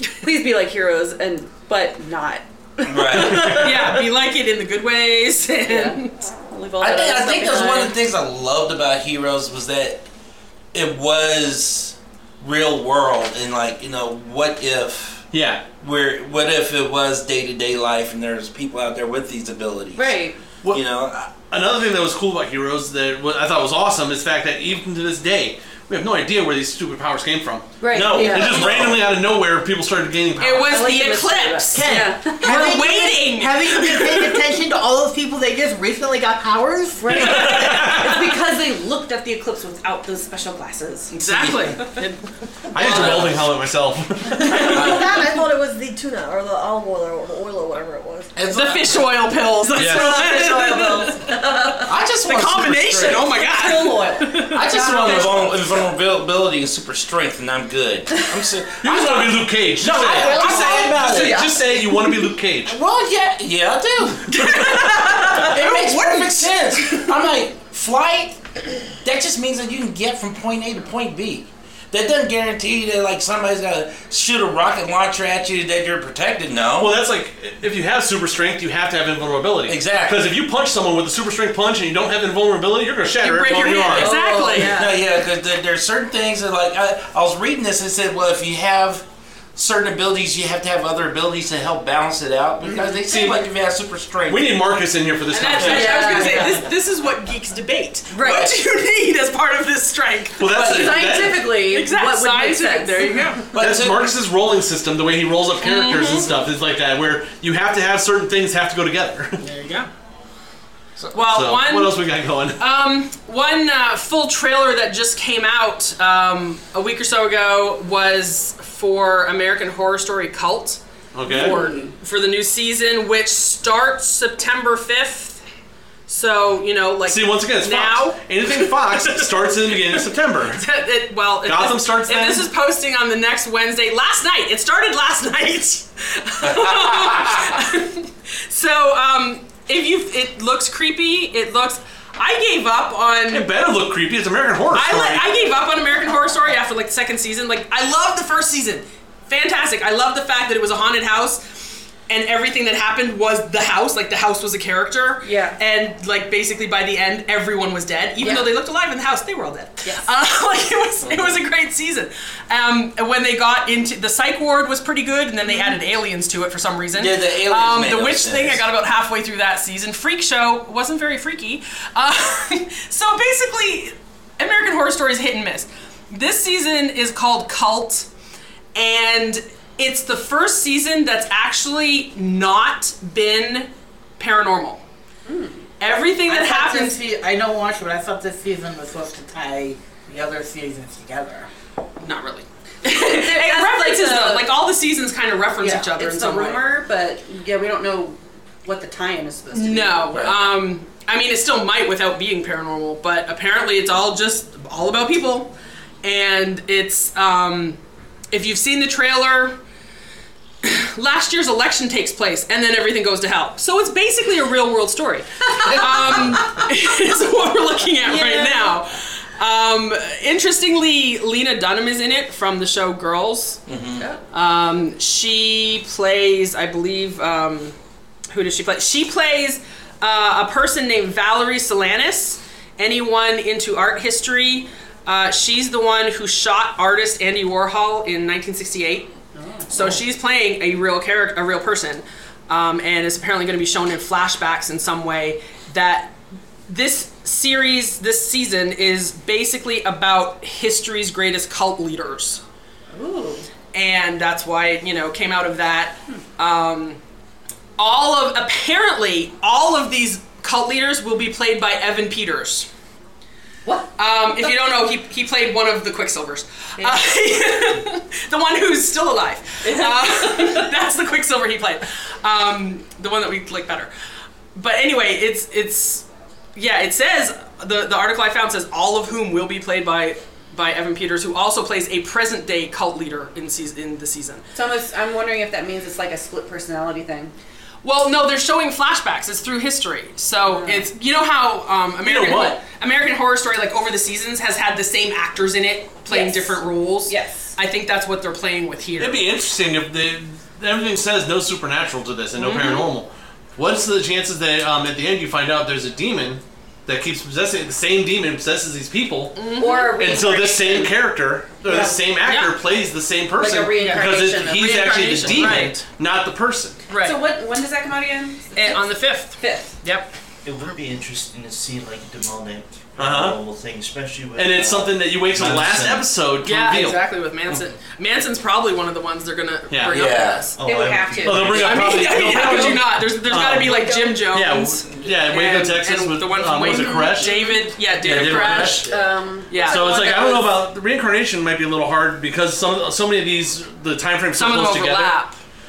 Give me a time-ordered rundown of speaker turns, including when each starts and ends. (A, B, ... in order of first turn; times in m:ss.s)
0:00.2-0:04.0 A
0:02.8-0:03.5 B
0:03.1-0:03.7 C
0:03.4-0:06.2 D
0:05.6-0:07.9 A
0:06.8-0:10.0 B
0:10.7-0:15.2 B
0:15.3-0:15.6 C
0:15.8-0:21.3 B
0:19.9-0:20.4 A
0:21.4-0:30.9 C
0:27.8-0:28.8 A
0:27.9-0:29.1 B
0:30.4-0:34.4 D
0:30.7-0:32.8 A
0:31.7-0:37.2 E
0:37.0-0:41.1 A
0:37.1-0:38.2 C
0:41.1-0:42.2 D
0:41.2-0:41.8 B
0:42.7-0:44.7 C
0:42.8-0:43.4 B
0:42.8-0:43.3 D
0:44.4-0:48.3 F
0:44.6-0:45.1 B
0:48.3-0:49.1 B
0:48.5-0:51.4 D
0:49.8-0:50.2 B
0:49.8-0:51.2 F
0:49.9-0:50.5 A
0:51.8-0:53.4 B
0:52.2-0:55.4 D
0:53.7-0:54.2 A
0:53.8-0:54.1 F
0:54.5-1:01.5 B
0:54.8-0:55.1 A
0:58.8-1:02.8 C
1:00.3-1:01.5 F
1:02.6-1:17.0 B
1:04.3-1:07.0 D
1:16.8-1:24.1 C
1:19.6-1:20.2 B
1:23.2-1:24.8 D
1:23.8-1:25.0 A
1:24.6-1:34.6 B
1:32.6-1:33.0 A
1:34.3-1:36.5 C
1:35.3-1:40.8 D
1:35.6-1:36.6 A
1:38.1-1:38.5 A
1:40.4-1:41.6 C
1:40.4-1:43.5 A
1:41.6-1:43.5 D
1:43.5-1:44.1 B
1:43.6-1:49.4 C
1:45.6-1:46.3 D
1:49.4-1:49.9 D
1:51.1-1:52.0 D
1:51.2-1:52.6 C
1:52.6-2:05.4 D
2:01.1-2:01.6 C
2:01.3-2:01.9 A
2:06.1-2:09.3 D
2:07.1-2:10.6 C
2:10.5-2:23.5 D
2:11.4-2:12.5 C
2:16.4-2:17.6 B
2:23.3-2:25.3 C
2:24.7-2:31.4 D
2:32.1-2:58.1 D
2:35.2-2:35.6 A
2:38.2-2:38.5 A
2:41.0-2:41.4 B
2:45.5-2:45.8 A
2:46.9-2:48.6 B
2:58.7-3:04.8 D
3:05.2-3:05.7 A
3:05.8-3:07.0 D
3:06.2-3:11.5 E
3:12.0-3:16.6 D
3:12.8-3:14.5 A
3:15.6-3:20.1 A
3:19.5-3:25.5 D
3:20.1-3:20.5 B
3:26.0-3:27.8 D
3:28.3-3:29.6 D
3:30.6-3:43.6 D
3:35.6-3:36.6 A
3:38.0-3:38.8 A
3:43.7-3:44.0 B
3:44.3-3:47.8 D
3:48.3-3:59.1 D
3:59.3-3:59.9 A
3:59.7-4:06.2 D
4:06.7-4:12.4 D
4:12.9-4:13.4 A
4:13.7-4:17.0 D
4:17.8-4:22.7 D
4:23.6-4:23.9 A
4:24.0-4:33.9 D
4:26.8-4:27.0 A
4:29.6-4:30.7 A
4:34.5-4:36.0 D
4:36.6-4:44.4 D
4:44.5-4:47.3 A
4:47.8-4:59.2 D
4:50.4-4:50.9 A
4:52.0-4:52.6 C
4:56.1-4:57.5 A
4:59.0-5:16.8 C
5:02.4-5:02.9 D
5:09.4-5:10.0 D
5:09.5-5:11.0 A
5:11.6-5:12.0 A
5:12.2-5:12.5 D
5:13.3-5:15.6 A
5:13.8-5:15.8 D
5:16.9-5:17.2 D
5:16.9-5:19.7 A
5:18.5-5:20.1 D
5:20.4-5:26.1 G
5:23.0-5:23.4 C
5:24.4-5:27.0 C
5:26.4-5:30.6 D
5:29.9-5:30.5 B
5:30.6-5:31.8 G
5:30.6-5:32.8 A
5:31.2-5:37.3 C
5:31.5-5:38.9 D
5:33.7-5:34.2 A
5:36.6-5:37.7 A
5:38.0-5:38.9 B
5:38.2-5:40.5 A
5:39.5-5:40.4 D
5:39.6-5:45.2 C
5:44.4-5:45.3 D